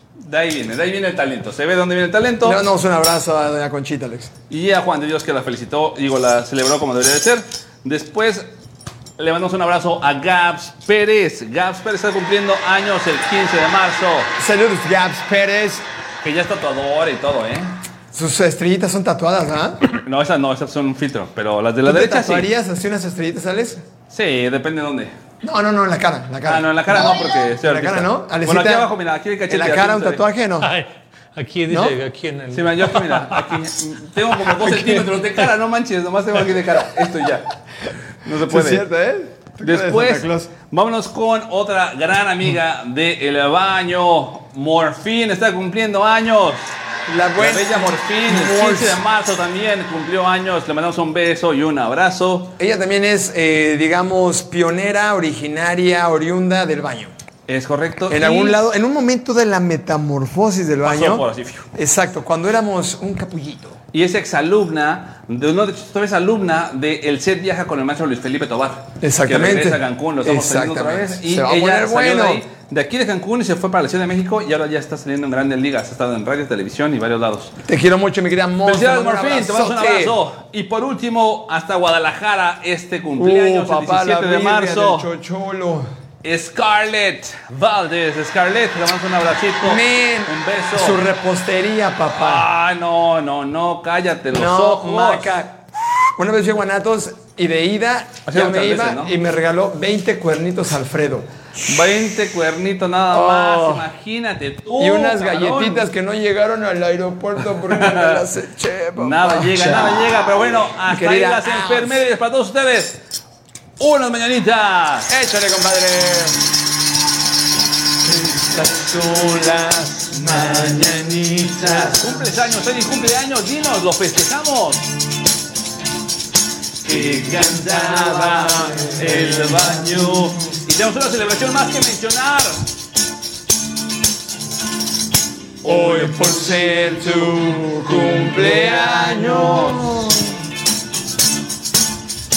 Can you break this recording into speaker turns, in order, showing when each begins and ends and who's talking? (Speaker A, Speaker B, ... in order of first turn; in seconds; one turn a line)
Speaker A: 0.2-2.6
Speaker B: 2.4-4.3
Speaker A: 4.5-8.5
Speaker A: 9.2-14.3
Speaker B: 14.4-15.8
Speaker A: 16.2-17.8
Speaker B: 18.1-19.8
Speaker A: 20.0-22.5
Speaker B: 21.8-23.8
Speaker A: 24.1-25.2
Speaker B: 25.4-28.9
Speaker A: 26.4-30.2
Speaker B: 29.5-30.7
Speaker C: 30.6-33.6
Speaker B: 31.7-32.0
Speaker A: 32.5-37.5
Speaker A: 38.2-38.9
Speaker B: 38.4-40.5
Speaker A: 39.6-46.8
Speaker B: 47.1-49.0
Speaker A: 47.4-52.6
Speaker B: 52.6-57.1
Speaker A: 57.5-58.6
Speaker B: 58.1-63.8
Speaker A: 60.8-61.7
Speaker A: 63.9-77.5
Speaker B: 69.0-72.4
Speaker B: 77.7-80.2
Speaker A: 78.6-85.1
Speaker B: 83.2-85.9
Speaker A: 86.2-91.0
Speaker B: 89.6-92.5
Speaker A: 92.1-95.4
Speaker B: 94.3-95.7
Speaker B: 96.2-101.3
Speaker A: 98.3-99.2
Speaker A: 101.6-105.9
Speaker B: 103.1-103.9
Speaker B: 104.8-110.0
Speaker A: 107.7-108.2
Speaker A: 109.0-113.0
Speaker B: 110.8-112.1
Speaker A: 113.8-115.1
Speaker B: 115.1-116.5
Speaker B: 118.0-122.2
Speaker A: 120.2-120.7
Speaker A: 121.7-124.9
Speaker A: 126.8-132.7
Speaker B: 127.0-130.1
Speaker A: 135.6-140.0
Speaker B: 135.6-140.4